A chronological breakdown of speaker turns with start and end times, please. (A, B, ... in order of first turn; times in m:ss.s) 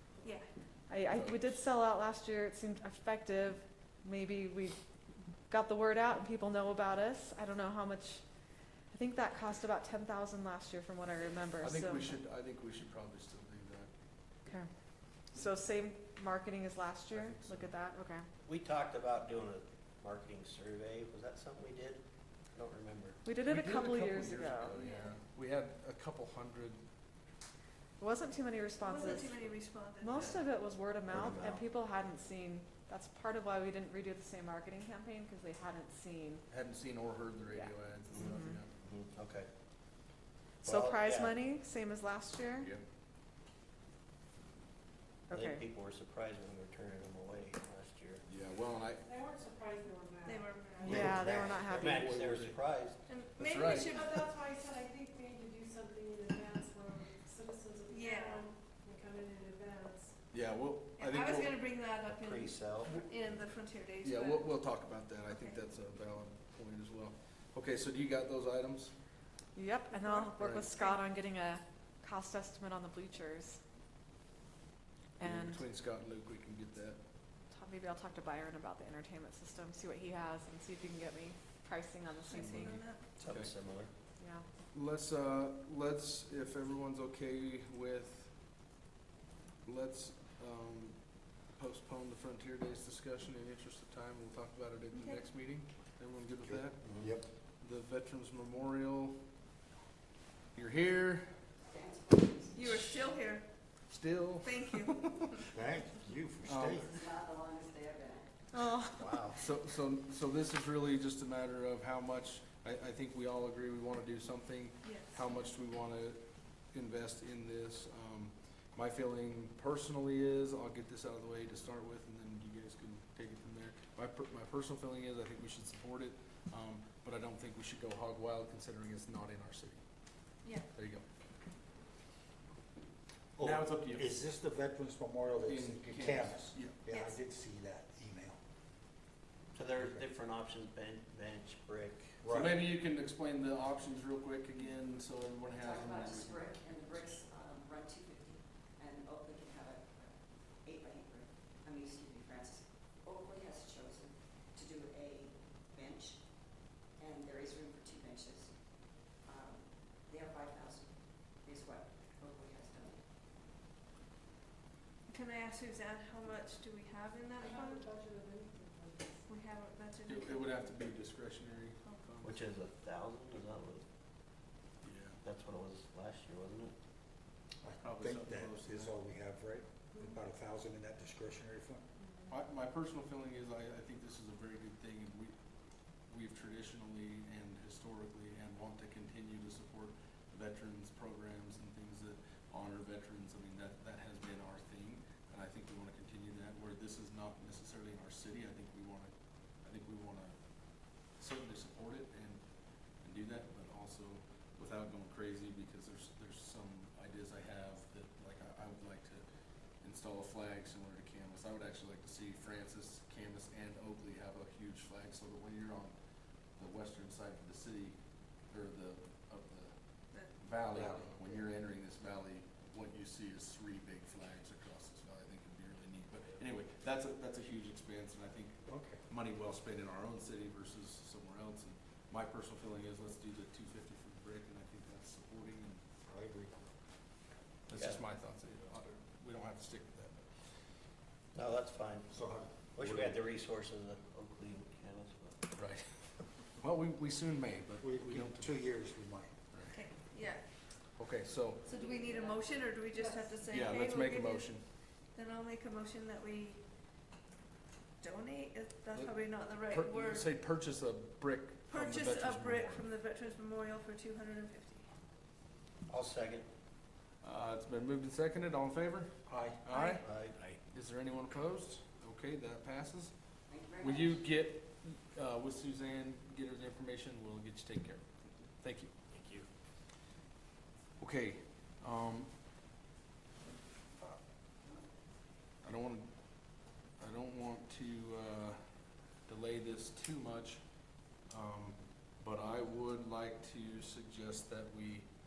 0:00.9-0:04.8 A
0:01.1-0:01.6 B
0:05.5-0:08.2 A
0:08.9-0:12.1 A
0:11.6-0:13.9 B
0:15.3-0:18.3 A
0:17.1-0:17.7 B
0:18.4-0:23.2 C
0:23.2-0:24.8 A
0:23.5-0:26.8 B
0:24.8-0:25.1 D
0:28.0-0:29.4 A
0:28.8-0:30.4 D
0:30.0-0:36.4 A
0:31.1-0:31.6 C
0:36.5-0:38.7 B
0:37.5-0:38.6 A
0:38.1-0:39.5 C
0:40.6-0:42.7 A
0:40.6-0:41.4 C
0:45.3-0:45.6 A
0:45.3-0:48.2 C
0:48.3-0:49.2 B
0:49.2-0:50.4 E
0:50.2-0:51.0 D
0:50.8-0:53.0 C
0:50.8-0:52.1 A
0:51.5-0:52.6 B
0:53.1-0:54.3 D
0:53.4-0:54.0 B
0:54.2-1:00.1 E
0:57.9-0:58.5 D
1:00.3-1:01.6 B
1:01.0-1:04.5 D
1:02.1-1:03.1 C
1:04.0-1:08.9 B
1:05.3-1:05.6 D
1:09.6-1:13.6 A
1:09.9-1:11.0 D
1:10.4-1:10.7 B
1:15.2-1:15.6 A
1:15.2-1:17.0 B
1:17.5-1:22.8 A
1:22.3-1:23.0 D
1:23.2-1:23.9 C
1:24.2-1:24.4 A
1:24.7-1:28.3 B
1:29.6-1:31.0 B
1:31.6-1:39.2 B
1:34.9-1:35.2 D
1:36.4-1:37.3 F
1:36.8-1:37.1 C
1:40.6-1:41.3 B
1:41.6-1:42.5 G
1:42.5-1:43.5 D
1:43.9-1:45.5 B
1:44.4-1:45.4 D
1:45.5-1:47.0 F
1:46.4-1:46.9 B
1:46.9-1:48.3 G
1:48.5-1:49.3 A
1:49.0-1:49.4 C
1:49.4-2:09.8 B
1:54.8-1:55.2 D
2:10.7-2:11.0 B
2:13.4-2:18.4 F
2:13.4-2:14.2 B
2:15.4-2:16.8 B
2:19.5-2:22.2 C
2:19.8-2:20.0 F
2:22.2-2:22.6 F
2:22.3-2:27.2 B
2:25.6-2:43.0 G
2:45.1-2:47.9 D
2:47.4-2:49.2 E
2:49.3-2:50.7 D
2:50.1-2:52.4 B
2:52.2-2:53.8 C
2:54.8-2:55.2 B
2:55.2-2:56.7 C
2:57.6-3:01.8 F
2:57.8-2:59.0 B
3:02.3-3:05.3 B
3:06.1-3:19.1 B
3:19.6-3:20.4 B
3:21.2-3:22.4 B
3:23.0-3:29.2 B
3:29.8-3:36.0 B
3:36.6-3:38.0 B
3:38.5-3:39.8 B
3:40.4-3:55.8 B
3:40.7-3:41.3 F
3:48.6-3:49.0 F
3:56.1-3:56.5 F
3:57.7-4:00.2 B
3:57.8-3:58.0 C
4:01.3-4:02.2 C
4:02.1-4:03.2 F
4:02.7-4:05.5 C
4:05.6-4:05.8 B
4:06.6-4:08.7 B
4:07.8-4:09.3 F
4:09.5-4:09.8 B
4:09.7-4:10.4 D
4:11.0-4:11.6 B
4:11.7-4:14.6 D
4:12.0-4:12.3 G
4:13.5-4:14.6 B
4:15.2-4:16.6 D
4:18.0-4:20.3 D
4:19.7-4:22.8 B
4:21.7-4:24.9 D
4:25.9-4:26.5 C
4:27.2-4:33.1 B
4:29.3-4:29.6 F
4:29.7-4:30.0 D
4:30.0-4:30.4 C
4:33.5-4:34.2 G
4:33.8-4:38.9 B
4:41.0-4:42.3 B
4:45.6-4:46.1 B
4:47.0-4:48.6 B
4:49.3-4:50.6 B
4:51.3-4:55.1 B